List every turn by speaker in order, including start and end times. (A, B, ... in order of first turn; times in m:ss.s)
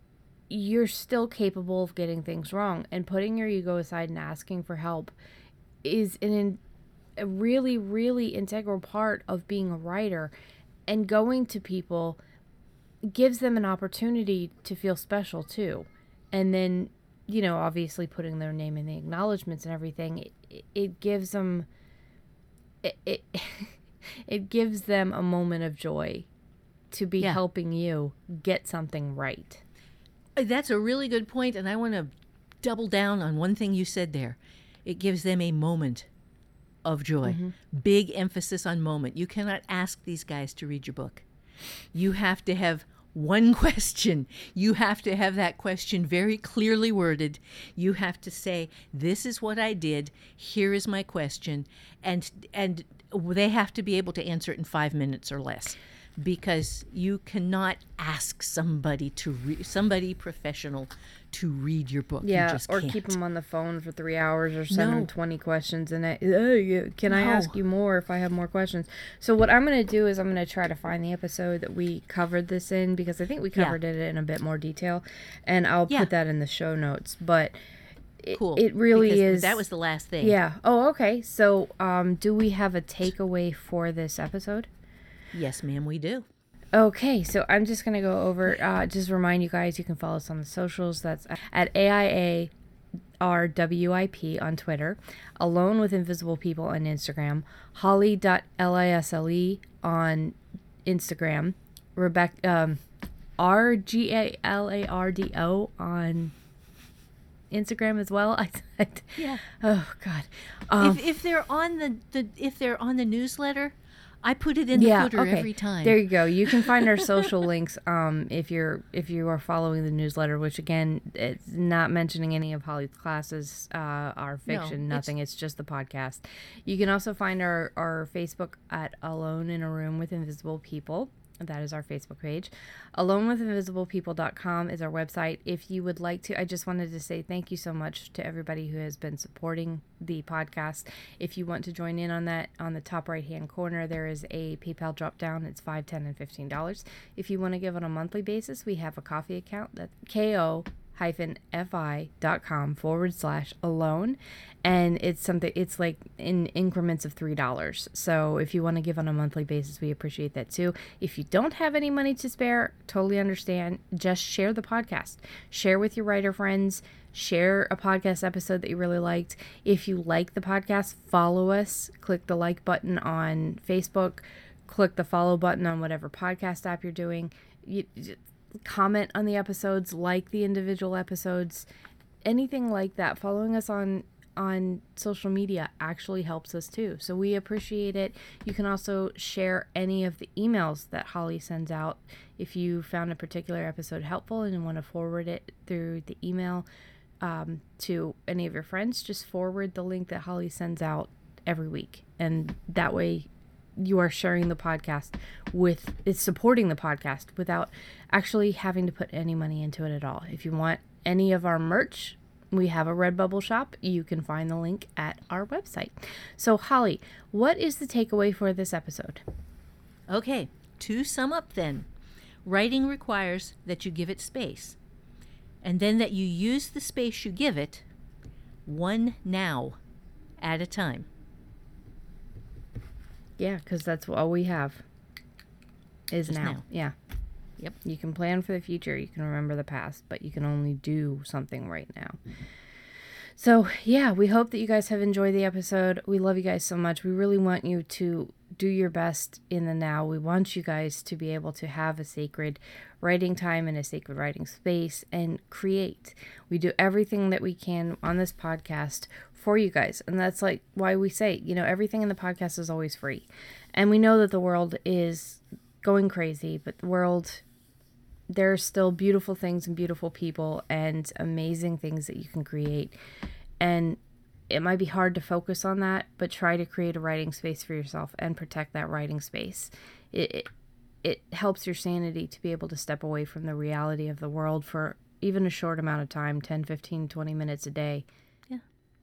0:00.5-0:05.1 A
0:05.8-0:06.6 A
0:07.2-0:10.3 A
0:10.9-0:12.2 A
0:13.0-0:21.6 A
0:22.8-0:23.8 A
0:24.3-0:26.3 A
0:26.9-0:29.6 A
0:30.4-0:32.1 B
0:32.6-0:36.1 B
0:36.8-0:41.2 B
0:37.2-0:37.5 A
0:41.9-1:03.2 B
1:02.2-1:17.5 A
1:04.7-1:05.1 B
1:07.1-1:07.6 B
1:18.2-1:19.6 A
1:18.3-1:20.4 B
1:20.2-1:24.7 A
1:25.3-1:26.2 B
1:26.7-1:32.5 A
1:33.2-1:42.8 A
1:43.4-1:46.3 A
1:47.5-1:51.0 A
1:49.2-1:49.4 B
1:50.8-1:57.2 B
1:54.7-3:01.6 A
2:04.5-2:05.1 B
3:02.2-3:16.6 A
3:17.2-3:39.2 A
3:40.1-3:41.9 B
3:42.4-3:44.8 B
3:45.6-3:47.8 B
3:48.6-3:49.8 B
3:50.4-3:51.1 B
3:53.4-3:54.8 A
3:56.1-3:56.9 A
3:56.3-3:56.6 B
3:57.8-4:02.2 A
4:03.4-4:27.4 A
4:28.3-4:33.0 A
4:33.6-4:40.5 A
4:41.0-4:48.0 A